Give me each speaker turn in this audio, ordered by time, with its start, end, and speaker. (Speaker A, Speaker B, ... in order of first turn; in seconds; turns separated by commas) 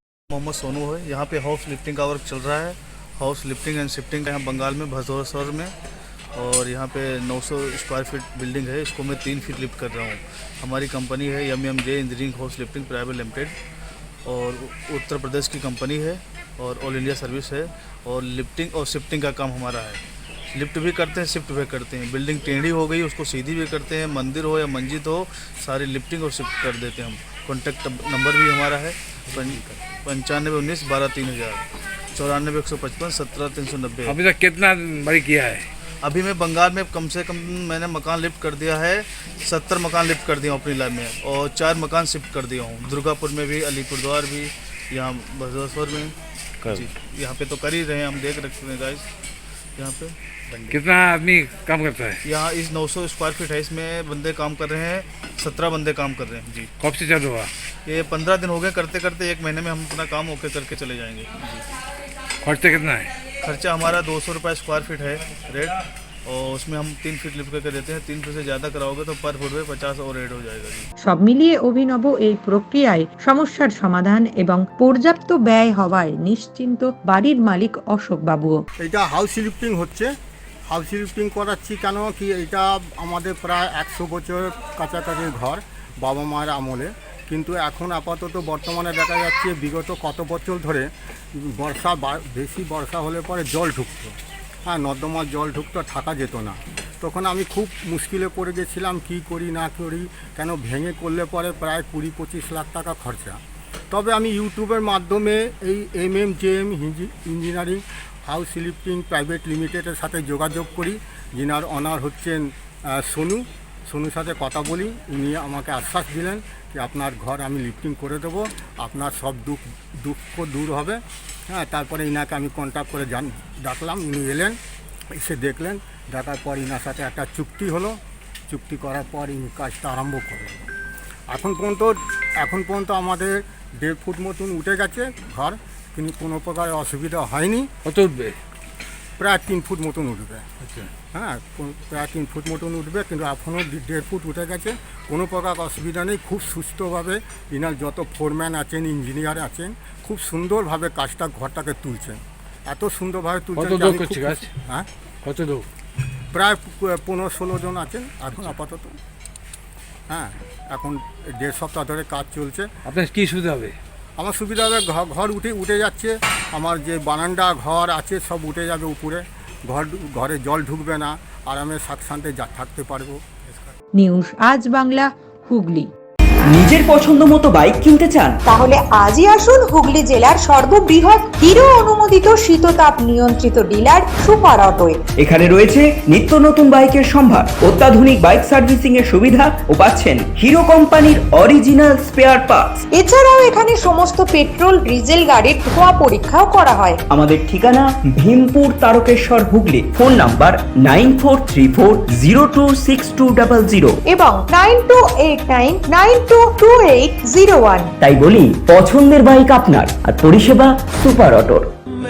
Speaker A: 0.3-5.7, Speaker A: 6.3-13.5, Speaker A: 14.2-34.2, Speaker B: 34.0-35.7, Speaker A: 36.0-46.1, Speaker A: 46.6-49.0, Speaker A: 49.8-50.8, Speaker B: 50.7-52.2, Speaker A: 52.2-56.7, Speaker B: 56.8-57.5, Speaker A: 57.9-61.6, Speaker B: 62.4-63.1, Speaker A: 63.4-70.9, Speaker C: 71.0-78.6, Speaker D: 78.8-80.1, Speaker D: 80.7-103.4, Speaker D: 103.9-124.6, Speaker D: 125.1-130.7, Speaker D: 131.3-137.7, Speaker B: 137.8-138.4, Speaker D: 139.2-140.5, Speaker B: 140.6-140.9, Speaker D: 141.1-154.9, Speaker B: 153.6-154.5, Speaker B: 155.2-155.7, Speaker D: 156.3-159.0, Speaker D: 160.1-162.7, Speaker B: 162.8-163.8, Speaker D: 164.2-173.7, Speaker C: 173.9-175.9, Speaker E: 176.4-178.4, Speaker F: 178.5-185.0, Speaker E: 185.2-192.8, Speaker F: 193.0-197.0, Speaker E: 197.1-204.0, Speaker F: 204.2-207.8, Speaker C: 204.2-204.7, Speaker C: 206.9-207.7, Speaker E: 208.0-211.7